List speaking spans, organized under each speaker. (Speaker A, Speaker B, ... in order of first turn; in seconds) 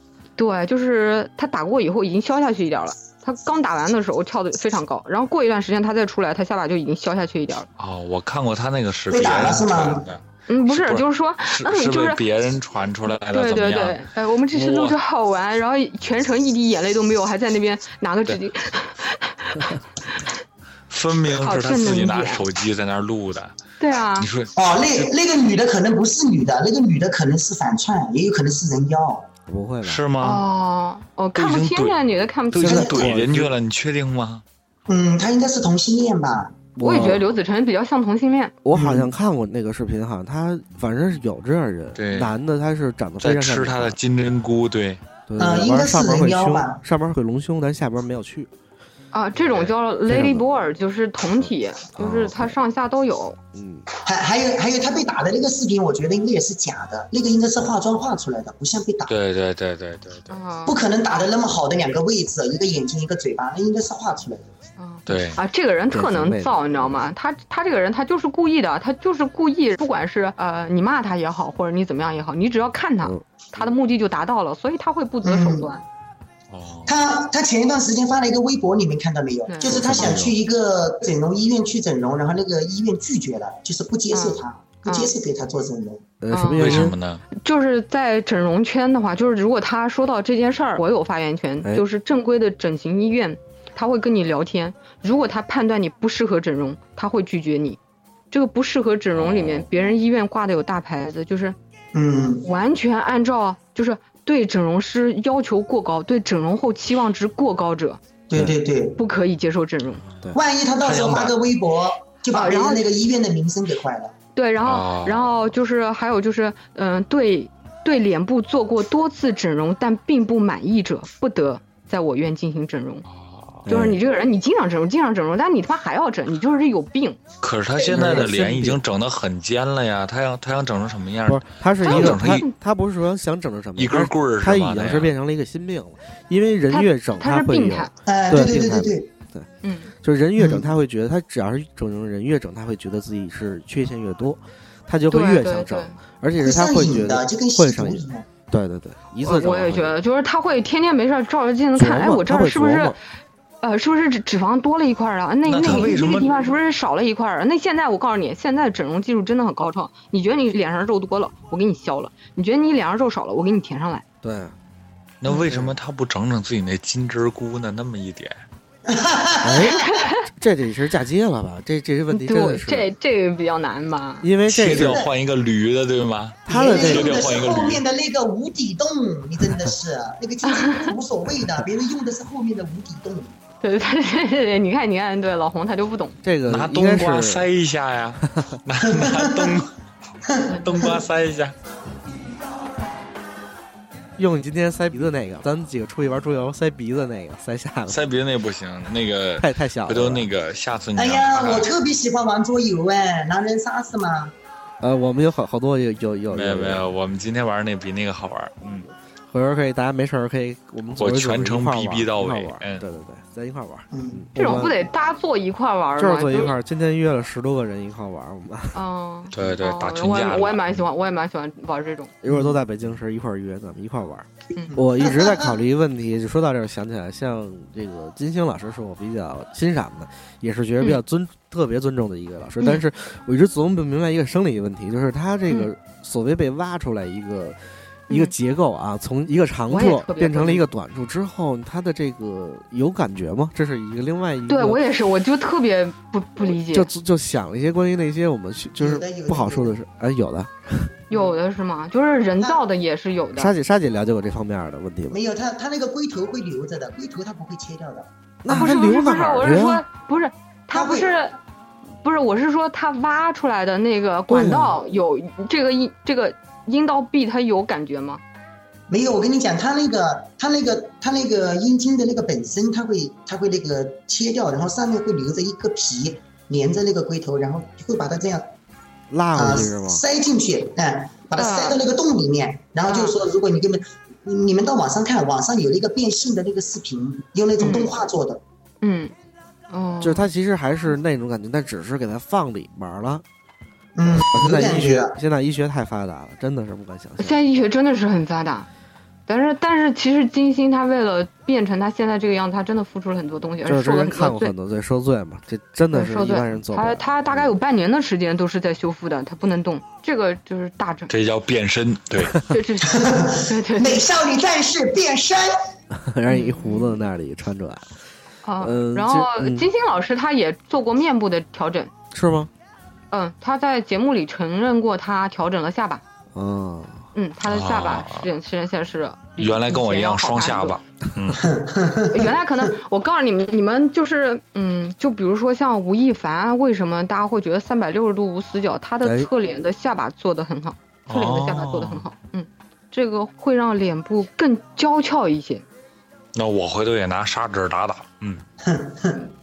Speaker A: 0.4-7.7, 10.5-12.2, 13.2-20.3, 21.4-22.5, 23.8-24.3, 30.2-33.0, 36.8-38.5, 49.1-53.4, 60.3-60.8, 64.8-75.8, 79.5-80.2, 84.1-85.1, 86.3-97.8, 98.3-101.6, 102.4-108.0, 109.0-110.0, 112.2-112.8, 114.3-123.1, 123.7-127.2, 131.8-132.5, 136.7-137.9, 139.6-139.9, 145.1-146.0, 149.2-153.0, 153.6-164.0, 169.7-170.1, 172.1-174.3, 180.5-180.9, 183.6-186.2, 214.4-216.5, 218.7-222.1, 224.6-224.8, 238.1-238.3, 239.7-240.7, 244.5-246.9, 251.1-253.5, 258.5-261.4, 262.0-268.2, 281.4-281.8, 282.9-283.1, 287.6-287.9, 288.8-289.1, 289.7-290.3, 297.2-298.7, 299.3-304.5, 305.9-311.1, 312.5-314.1, 316.3-317.0, 318.4-321.9, 323.1-326.0, 327.1-330.8, 332.1-345.6
Speaker B: 7.8-15.0, 20.9-23.6, 24.2-25.1, 29.8-30.4, 31.4-34.4, 42.0-42.4, 43.2-45.0, 49.4-49.7, 59.1-60.4, 65.1-65.4, 76.5-77.0, 86.5-87.2, 99.1-99.7, 110.8-111.3, 114.6-115.3, 123.1-123.7, 127.4-132.4, 133.8-135.1, 155.4-156.3, 165.2-168.4, 174.5-177.8, 186.5-189.7, 190.5-191.6, 197.9-201.7, 206.3-208.9, 210.9-212.8, 219.3-220.6, 311.1-312.4, 327.4-328.2, 329.4-331.5, 341.1-342.1, 346.4-348.4
Speaker C: 9.1-10.1, 24.6-29.3, 32.6-33.1, 34.9-36.6, 38.7-39.1, 45.4-46.8, 54.0-59.1, 60.7-64.5, 75.2-75.7, 76.9-86.0, 101.9-102.5, 108.3-109.0, 110.3-114.1, 127.8-128.3, 138.1-139.1, 140.4-140.7, 146.4-148.2, 168.9-169.7, 174.6-175.1, 176.5-183.3, 188.9-189.6, 190.3-191.0, 201.0-204.3, 213.9-214.2, 222.3-222.5, 224.8-225.5, 248.8-249.7, 255.1-258.7, 260.7-261.1, 268.9-278.5, 279.4-288.4, 294.0-295.1, 312.8-315.5, 331.4-332.4, 348.6-349.1
Speaker D: 29.5-30.1, 32.5-33.5, 36.8-37.3, 38.6-44.0, 45.3-48.5, 50.1-50.5, 51.4-52.6, 53.5-53.9, 65.9-67.0, 73.0-73.7, 79.6-80.4, 86.2-87.0, 123.6-124.0, 127.9-128.8, 131.2-139.5, 140.0-150.0, 151.8-153.0, 164.2-164.6, 165.3-165.8, 169.4-172.9, 174.2-175.0, 176.5-177.5, 186.2-187.5, 188.2-188.5, 194.2-198.1, 199.4-200.3, 204.8-206.9, 209.3-214.8, 216.0-218.8, 222.2-244.8, 246.4-251.0, 253.4-255.2, 258.4-259.9, 264.3-264.8, 279.1-280.0, 290.0-293.2, 294.1-297.4, 303.6-307.5, 315.9-317.9, 318.6-319.7, 322.1-322.5, 326.3-327.1, 339.0-339.3